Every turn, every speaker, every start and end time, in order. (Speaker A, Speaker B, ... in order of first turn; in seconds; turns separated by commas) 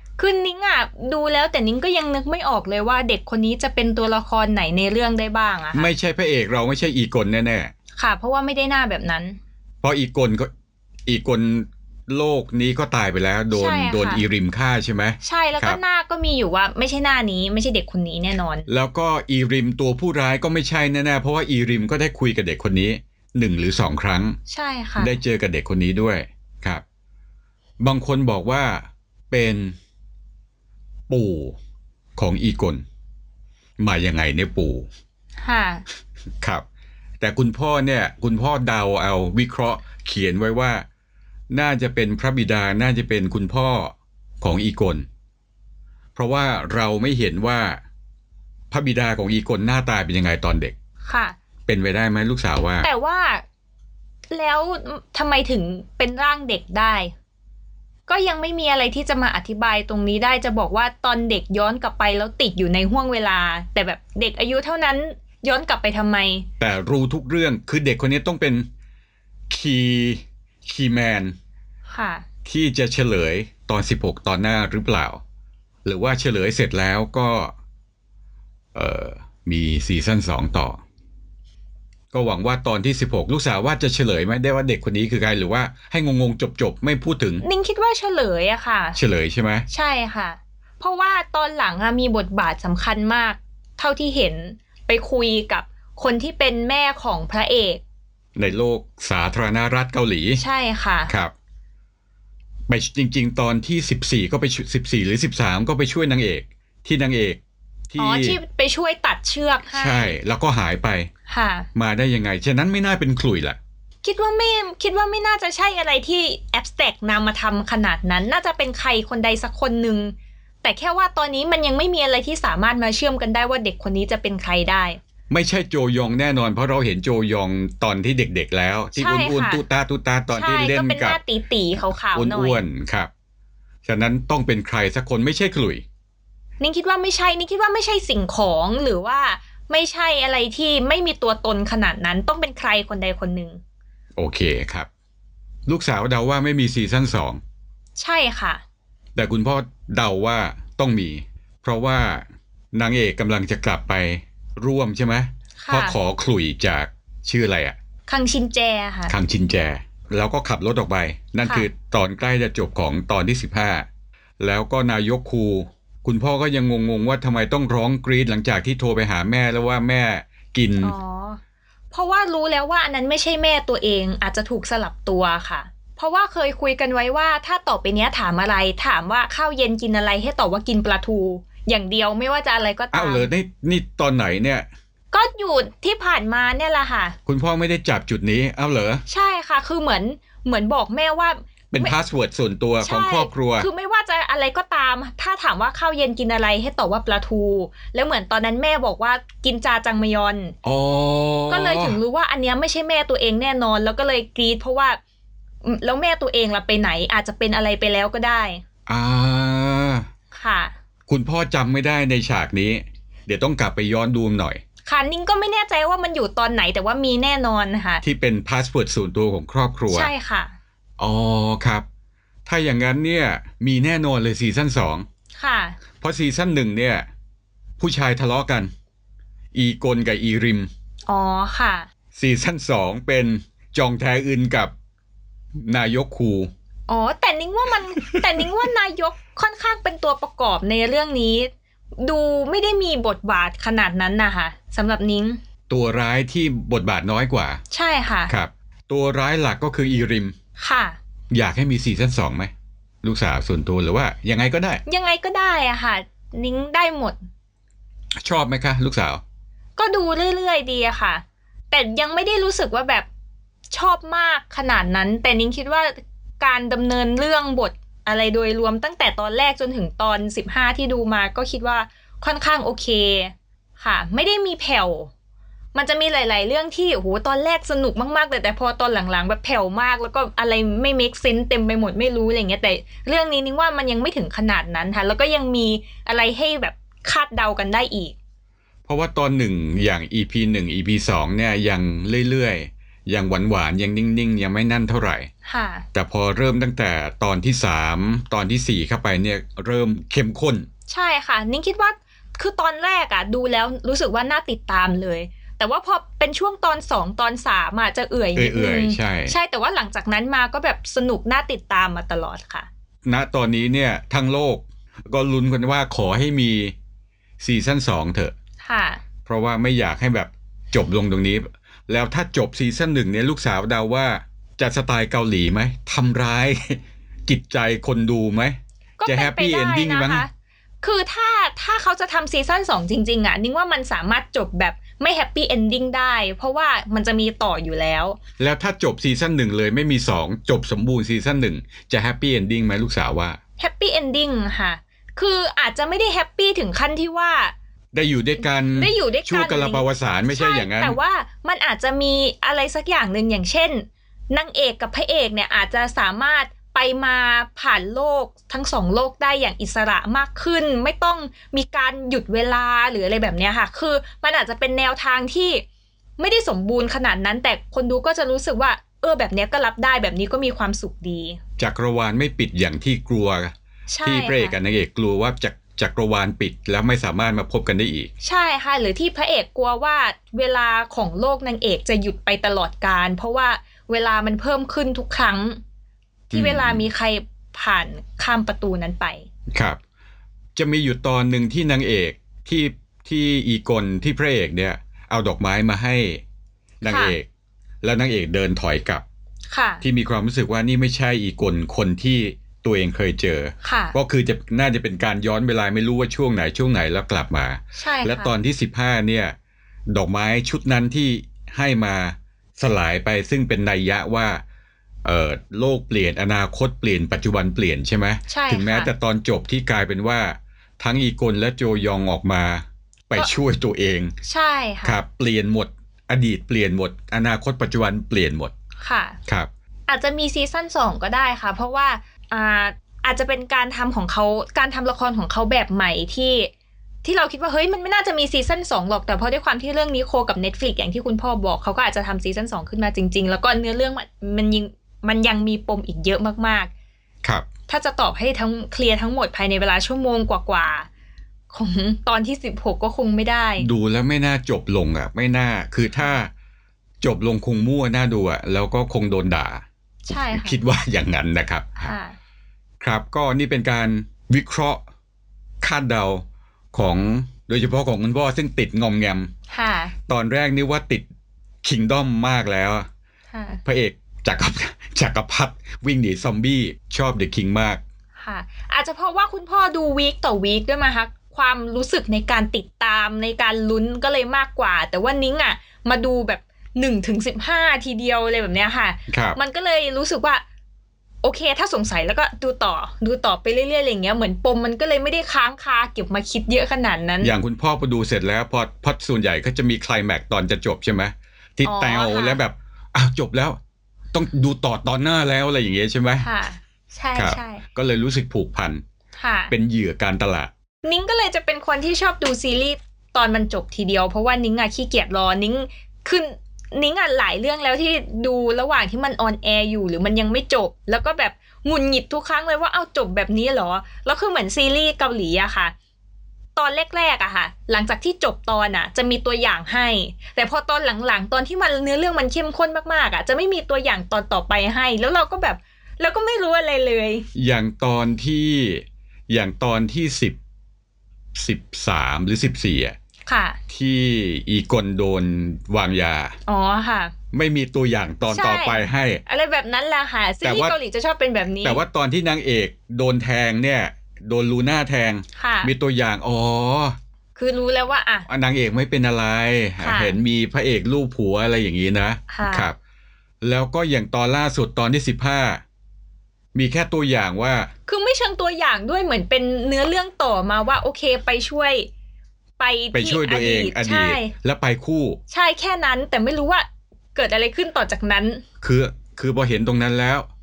Speaker A: 0.2-5.9, Speaker B: 5.7-7.7, Speaker A: 8.0-9.4, Speaker B: 9.8-10.5, Speaker B: 11.1-15.8, Speaker A: 13.5-14.2, Speaker A: 15.2-18.7, Speaker B: 18.7-24.4, Speaker A: 24.5-25.1, Speaker B: 25.0-26.8, Speaker B: 27.8-29.8, Speaker B: 31.1-31.6, Speaker B: 32.2-32.8, Speaker B: 33.8-34.9, Speaker A: 35.4-35.8, Speaker B: 37.2-40.8, Speaker B: 41.5-45.0, Speaker B: 46.1-47.8, Speaker B: 48.7-50.7, Speaker A: 51.0-51.4, Speaker B: 51.7-52.9, Speaker A: 52.8-53.4, Speaker A: 54.3-57.1, Speaker A: 58.1-66.5, Speaker B: 66.6-68.7, Speaker B: 69.5-71.3, Speaker A: 71.9-72.2, Speaker B: 72.5-75.2, Speaker B: 75.8-77.5, Speaker B: 78.7-80.8, Speaker B: 82.1-87.4, Speaker A: 87.4-89.0, Speaker B: 89.0-89.7, Speaker A: 89.7-97.8, Speaker B: 98.3-100.4, Speaker A: 100.3-101.1, Speaker B: 101.1-101.3, Speaker B: 102.7-108.4, Speaker A: 108.0-110.2, Speaker B: 109.7-111.1, Speaker A: 111.3-111.7, Speaker B: 111.7-113.6, Speaker A: 114.0-125.0, Speaker B: 125.3-131.2, Speaker A: 128.9-129.6, Speaker A: 130.3-132.6, Speaker B: 132.1-133.1, Speaker B: 133.8-135.8, Speaker A: 136.6-143.6, Speaker B: 144.2-144.9, Speaker B: 145.7-147.4, Speaker A: 148.0-148.6, Speaker B: 149.1-157.8, Speaker A: 155.6-156.0, Speaker A: 158.1-159.1, Speaker B: 159.1-163.9, Speaker A: 161.4-161.7, Speaker B: 164.4-170.9, Speaker A: 170.8-183.3, Speaker B: 182.9-184.7, Speaker A: 185.1-187.2, Speaker B: 187.2-189.0, Speaker A: 189.1-191.9, Speaker B: 191.7-193.7, Speaker A: 192.8-200.5, Speaker B: 200.6-202.0, Speaker A: 201.5-205.0, Speaker A: 205.6-208.6, Speaker B: 208.9-210.1, Speaker A: 210.3-210.7, Speaker B: 211.1-214.6, Speaker A: 214.8-218.0, Speaker B: 218.0-220.1, Speaker A: 219.9-220.5, Speaker B: 221.0-221.8, Speaker B: 222.4-225.0, Speaker A: 225.4-225.8, Speaker B: 226.0-227.1, Speaker B: 227.8-228.7, Speaker B: 229.5-230.7, Speaker A: 231.1-231.9, Speaker B: 232.2-234.7, Speaker B: 235.6-236.5, Speaker A: 236.9-245.4, Speaker B: 238.1-238.4, Speaker B: 245.7-247.6, Speaker A: 247.7-248.3, Speaker B: 248.3-250.3, Speaker A: 250.6-251.0, Speaker B: 251.3-252.5, Speaker B: 253.0-254.8, Speaker A: 254.8-257.2, Speaker B: 258.2-259.2, Speaker A: 259.8-263.1, Speaker A: 263.7-275.1, Speaker A: 275.7-288.1, Speaker B: 288.9-295.3, Speaker A: 295.4-295.8, Speaker B: 295.9-300.7, Speaker A: 300.9-312.7, Speaker B: 308.4-309.4, Speaker B: 313.1-316.7, Speaker B: 317.4-318.3, Speaker A: 318.6-319.0, Speaker B: 319.2-330.2, Speaker A: 329.0-330.3, Speaker A: 330.8-338.2, Speaker B: 338.4-343.4, Speaker A: 343.6-347.5, Speaker B: 347.9-351.0, Speaker A: 348.7-365.6, Speaker A: 366.2-371.4, Speaker B: 371.6-378.1, Speaker A: 373.9-374.6, Speaker A: 378.2-385.6, Speaker A: 386.3-389.3, Speaker B: 386.3-386.9, Speaker B: 389.5-389.8, Speaker B: 390.6-396.2, Speaker B: 396.8-397.3, Speaker A: 396.8-397.1, Speaker B: 397.8-399.0, Speaker A: 399.5-399.8, Speaker B: 399.8-409.3, Speaker A: 403.6-404.0, Speaker A: 407.8-408.4, Speaker B: 409.9-414.4, Speaker B: 415.0-424.1, Speaker A: 418.3-418.9, Speaker A: 424.2-425.0, Speaker B: 424.8-428.5, Speaker A: 428.8-429.2, Speaker A: 429.9-436.5, Speaker A: 437.0-446.7, Speaker A: 447.7-450.9, Speaker A: 451.5-453.7, Speaker B: 453.6-456.3, Speaker B: 457.0-461.9, Speaker A: 460.1-460.6, Speaker A: 461.8-462.1, Speaker B: 462.8-464.8, Speaker B: 465.6-469.3, Speaker A: 469.5-469.9, Speaker B: 470.1-471.1, Speaker B: 471.6-472.9, Speaker A: 473.3-473.6, Speaker B: 473.6-477.8, Speaker A: 478.2-490.4, Speaker B: 489.1-489.4, Speaker A: 491.2-497.3, Speaker B: 497.2-503.6, Speaker A: 501.6-502.4, Speaker B: 504.1-506.3, Speaker A: 506.2-507.6, Speaker B: 507.1-508.8, Speaker A: 509.2-509.5, Speaker B: 509.5-510.5, Speaker A: 510.8-525.7, Speaker A: 526.5-537.3, Speaker B: 537.3-540.4, Speaker B: 541.3-543.0, Speaker A: 543.3-543.6, Speaker B: 543.7-546.4, Speaker A: 546.5-547.1, Speaker B: 547.3-549.2, Speaker A: 548.3-551.8, Speaker B: 550.4-550.8, Speaker B: 551.6-557.0, Speaker A: 555.3-555.7, Speaker A: 557.3-558.3, Speaker B: 558.3-562.8, Speaker A: 559.8-560.2, Speaker A: 562.3-562.7, Speaker B: 563.4-565.6, Speaker B: 566.5-567.7, Speaker A: 567.9-571.9, Speaker A: 572.6-574.3, Speaker B: 572.9-575.2, Speaker A: 575.3-578.4, Speaker B: 578.6-580.3